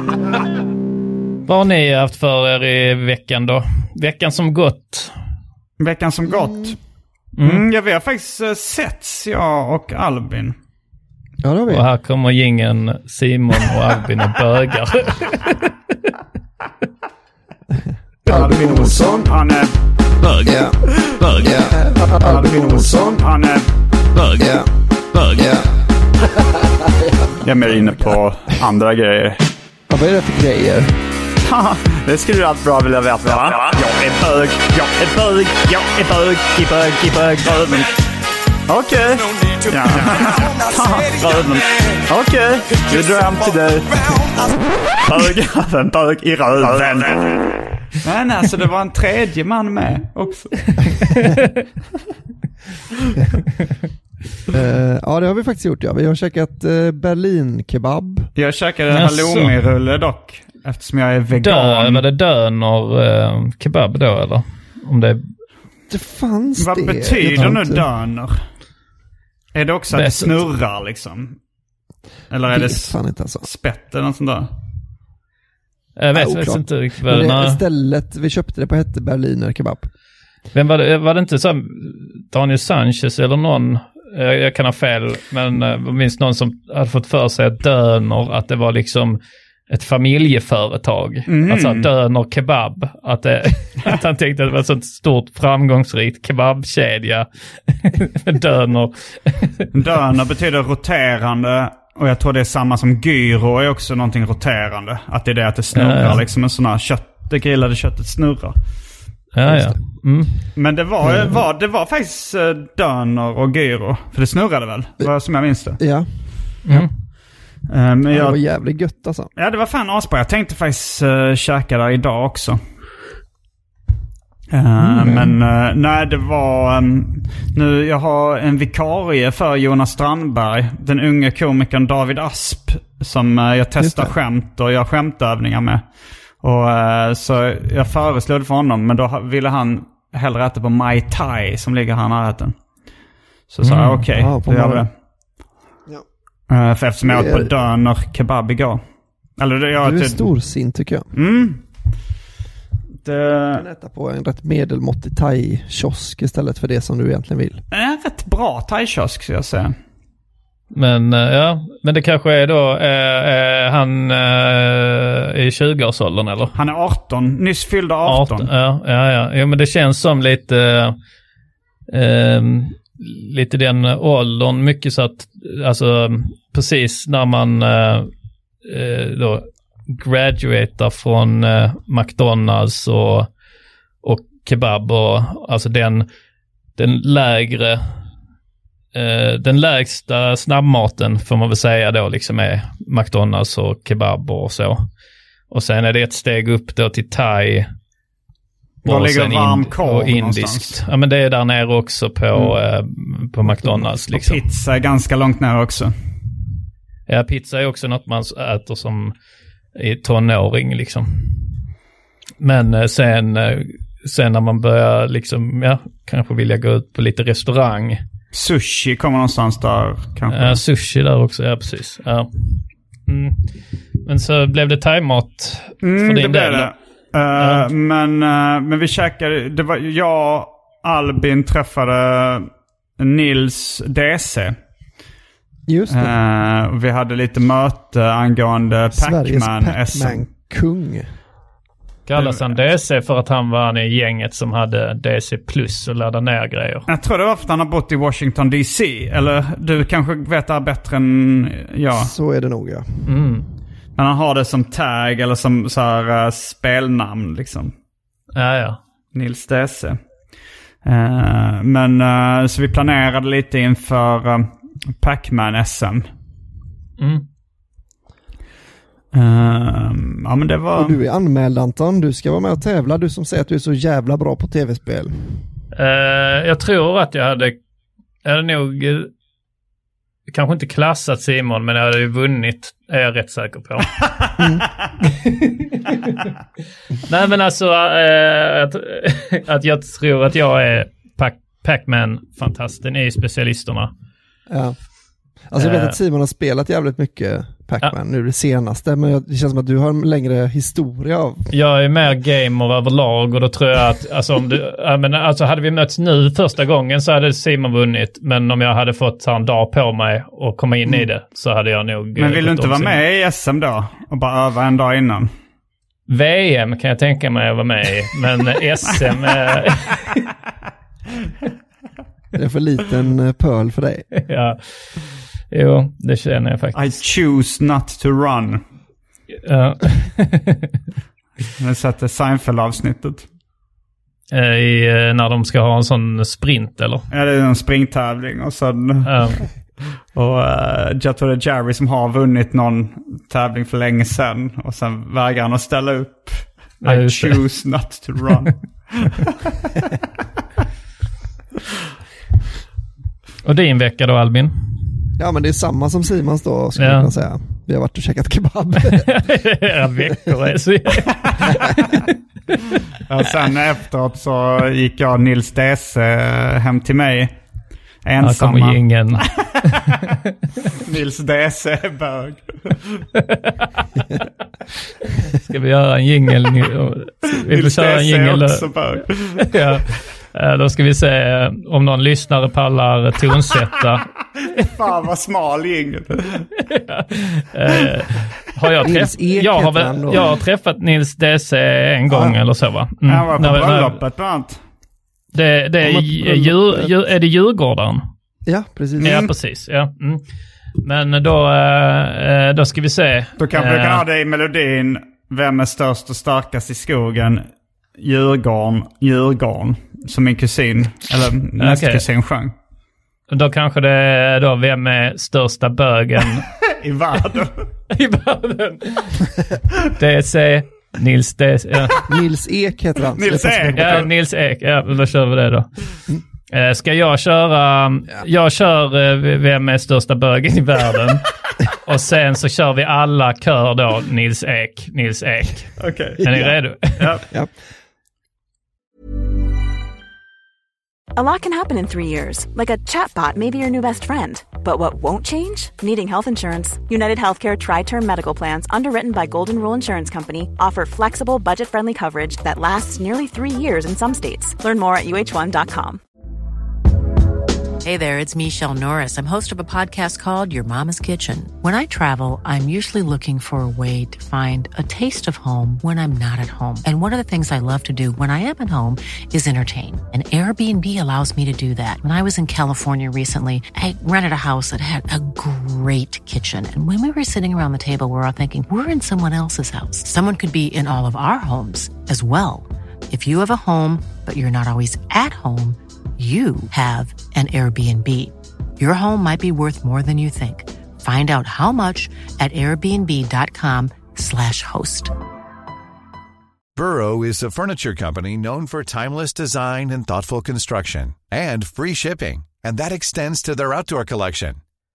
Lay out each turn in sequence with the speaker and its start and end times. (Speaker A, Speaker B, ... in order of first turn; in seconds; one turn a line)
Speaker A: 1.5-5.1
Speaker B: 5.8-6.8
Speaker C: 6.3-6.7
Speaker A: 7.4-7.6
Speaker B: 7.4-10.6
Speaker C: 11.4-11.9
Speaker A: 11.7-15.7
Speaker C: 18.2-19.3
Speaker B: 18.3-19.7
Speaker A: 20.2-20.5
Speaker C: 20.4-20.8
Speaker A: 21.2-21.6
Speaker C: 21.4-23.2
Speaker B: 22.2-23.7
Speaker A: 24.2-24.4
Speaker C: 24.4-24.7
Speaker C: 25.3-25.7
Speaker C: 26.4-28.2
Speaker B: 27.4-29.4
Speaker C: 29.9-31.0
Speaker B: 31.5-37.9
Speaker B: 38.7-44.4
Speaker B: 45.0-47.4
Speaker B: 48.0-51.0
Speaker C: 54.5-58.3
Speaker B: 58.4-62.1
Speaker A: 58.9-59.5
Speaker A: 61.3-65.3
Speaker C: 65.9-67.9
Speaker B: 66.6-68.4
Speaker B: 69.5-71.4
Speaker A: 69.9-70.4
Speaker B: 72.3-74.5
Speaker C: 72.5-73.5
Speaker A: 76.0-77.6
Speaker C: 76.1-79.9
Speaker A: 80.5-99.7
Speaker B: 91.3-91.9
Speaker B: 99.7-108.6
Speaker A: 105.7-106.2
Speaker A: 109.3-110.3
Speaker C: 109.5-109.8
Speaker B: 110.6-115.8
Speaker C: 111.0-111.4
Speaker C: 115.8-116.9
Speaker B: 117.7-118.4
Speaker C: 118.1-119.3
Speaker B: 119.4-122.6
Speaker B: 124.5-135.9
Speaker C: 124.8-125.4
Speaker C: 133.8-134.1
Speaker B: 136.4-142.9
Speaker B: 143.5-144.9
Speaker A: 143.6-144.1
Speaker C: 144.1-144.9
Speaker B: 146.5-148.8
Speaker C: 147.0-147.5
Speaker B: 149.4-150.2
Speaker C: 149.8-151.1
Speaker B: 151.1-151.6
Speaker B: 153.0-153.7
Speaker C: 153.5-157.6
Speaker B: 157.7-159.7
Speaker A: 160.7-166.5
Speaker B: 166.6-168.5
Speaker A: 168.1-171.0
Speaker A: 171.9-178.1
Speaker A: 178.6-183.3
Speaker A: 184.0-186.1
Speaker A: 186.8-187.8
Speaker A: 188.9-194.8
Speaker A: 195.5-197.7
Speaker A: 198.8-204.4
Speaker B: 198.8-200.8
Speaker C: 203.4-203.9
Speaker B: 204.1-205.9
Speaker A: 207.1-209.2
Speaker A: 209.8-211.6
Speaker A: 212.4-218.0
Speaker B: 218.3-220.6
Speaker A: 220.3-223.4
Speaker A: 224.1-226.7
Speaker B: 225.8-234.6
Speaker A: 227.4-227.7
Speaker C: 235.7-236.2
Speaker B: 235.9-240.3
Speaker C: 238.9-241.2
Speaker A: 242.1-246.9
Speaker B: 242.2-242.6
Speaker B: 246.9-252.1
Speaker C: 251.9-253.1
Speaker A: 253.1-253.5
Speaker B: 254.0-257.7
Speaker A: 258.4-258.8
Speaker B: 259.1-266.1
Speaker A: 267.0-267.2
Speaker B: 269.1-271.0
Speaker C: 270.8-275.4
Speaker A: 275.8-277.6
Speaker A: 278.2-279.1
Speaker A: 280.3-284.0
Speaker C: 284.4-284.6
Speaker A: 285.2-286.3
Speaker A: 287.1-293.9
Speaker C: 294.5-294.8
Speaker C: 295.4-301.5
Speaker A: 295.6-296.0
Speaker A: 301.5-313.0
Speaker B: 312.2-315.3
Speaker A: 316.1-320.2
Speaker C: 322.3-324.1
Speaker A: 324.2-327.0
Speaker B: 326.7-328.6
Speaker A: 329.4-330.7
Speaker B: 331.6-333.3
Speaker A: 334.3-337.1
Speaker B: 337.1-339.5
Speaker A: 339.1-339.4
Speaker B: 340.1-349.3
Speaker A: 346.8-347.4
Speaker A: 353.4-354.9
Speaker C: 355.2-359.2
Speaker A: 356.8-357.1
Speaker A: 358.9-362.0
Speaker B: 363.1-367.5
Speaker B: 368.0-369.3
Speaker A: 368.2-369.3
Speaker B: 370.8-373.0
Speaker A: 373.2-373.9
Speaker A: 375.2-378.6
Speaker B: 377.5-379.4
Speaker A: 379.5-384.1
Speaker B: 384.6-386.5
Speaker A: 386.7-394.0
Speaker C: 388.8-390.4
Speaker B: 393.0-394.6
Speaker A: 395.3-398.1
Speaker C: 395.8-396.9
Speaker C: 398.5-399.2
Speaker A: 399.0-400.2
Speaker B: 399.0-399.3
Speaker A: 400.8-404.0
Speaker B: 403.4-412.5
Speaker A: 411.6-412.0
Speaker A: 413.3-416.4
Speaker B: 416.8-417.7
Speaker A: 417.9-419.3
Speaker A: 419.8-422.0
Speaker C: 422.1-424.1
Speaker B: 423.2-424.1
Speaker A: 423.8-425.7
Speaker A: 426.5-431.3
Speaker A: 431.8-437.1
Speaker B: 435.8-436.3
Speaker C: 436.3-436.5
Speaker B: 437.0-437.2
Speaker D: 441.2-456.0
Speaker E: 457.8-495.1
Speaker F: 496.8-504.6